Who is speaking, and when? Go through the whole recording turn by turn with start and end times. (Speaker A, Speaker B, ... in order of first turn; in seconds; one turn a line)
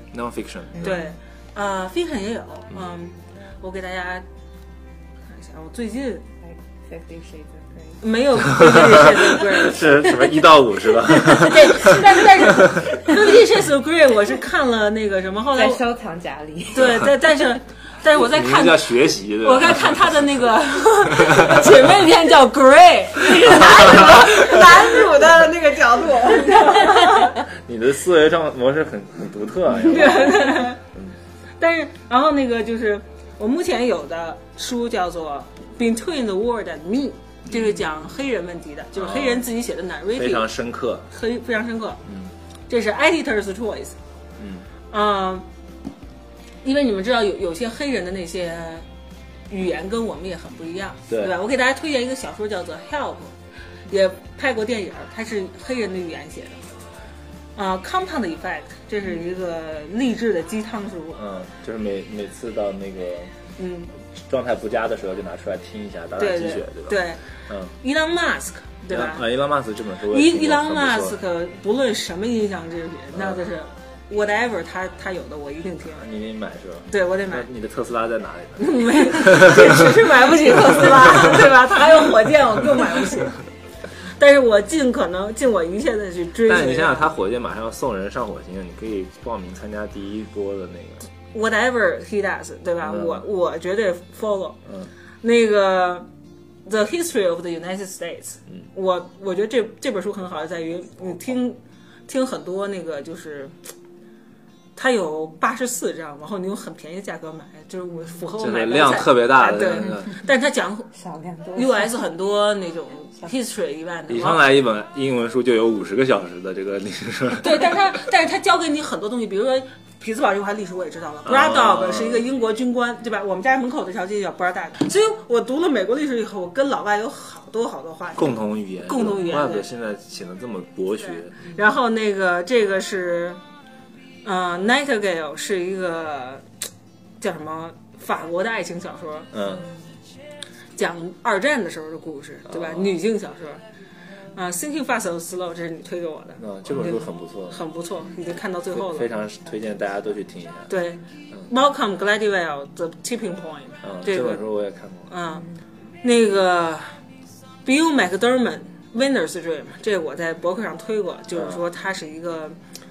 Speaker A: 0.1-1.0
Speaker B: 0.8-4.2
Speaker B: 5.3-6.2
Speaker C: 6.4-8.0
Speaker B: 8.0-9.9
Speaker A: 8.4-12.8
Speaker B: 11.2-15.8
Speaker C: 15.5-17.1
Speaker B: 16.7-27.4
Speaker A: 18.1-20.2
Speaker A: 21.4-21.7
Speaker A: 23.6-24.5
Speaker C: 26.4-27.2
Speaker A: 27.4-31.1
Speaker B: 29.8-30.8
Speaker B: 31.6-40.5
Speaker A: 37.5-37.8
Speaker A: 39.0-39.5
Speaker A: 40.1-41.1
Speaker B: 41.1-42.0
Speaker A: 42.0-42.3
Speaker B: 42.7-44.0
Speaker A: 44.4-44.7
Speaker B: 44.9-45.5
Speaker B: 46.6-48.9
Speaker B: 49.5-53.3
Speaker A: 51.1-51.3
Speaker B: 53.9-56.6
Speaker B: 57.5-61.2
Speaker A: 61.1-63.3
Speaker B: 63.6-63.9
Speaker A: 64.1-67.7
Speaker B: 66.2-67.2
Speaker B: 67.8-69.2
Speaker A: 68.9-71.2
Speaker B: 70.1-76.0
Speaker A: 73.1-73.4
Speaker A: 76.0-81.5
Speaker B: 76.9-77.5
Speaker B: 78.6-83.4
Speaker B: 84.0-87.1
Speaker A: 86.5-91.1
Speaker B: 91.3-94.6
Speaker A: 92.8-93.2
Speaker A: 94.6-94.9
Speaker B: 95.2-96.1
Speaker B: 96.7-103.5
Speaker B: 104.8-110.9
Speaker A: 108.4-110.1
Speaker C: 110.9-111.9
Speaker B: 111.5-114.4
Speaker A: 114.1-117.8
Speaker B: 117.4-129.7
Speaker A: 121.2-122.2
Speaker A: 128.2-131.4
Speaker B: 130.9-133.4
Speaker B: 134.2-136.4
Speaker B: 137.2-139.3
Speaker A: 139.3-139.7
Speaker B: 140.8-143.6
Speaker A: 142.5-143.0
Speaker B: 144.3-149.1
Speaker A: 146.4-147.6
Speaker A: 148.7-150.7
Speaker B: 150.7-154.4
Speaker A: 153.8-155.1
Speaker B: 155.1-155.5
Speaker B: 156.0-157.0
Speaker B: 157.6-162.6
Speaker A: 161.3-161.6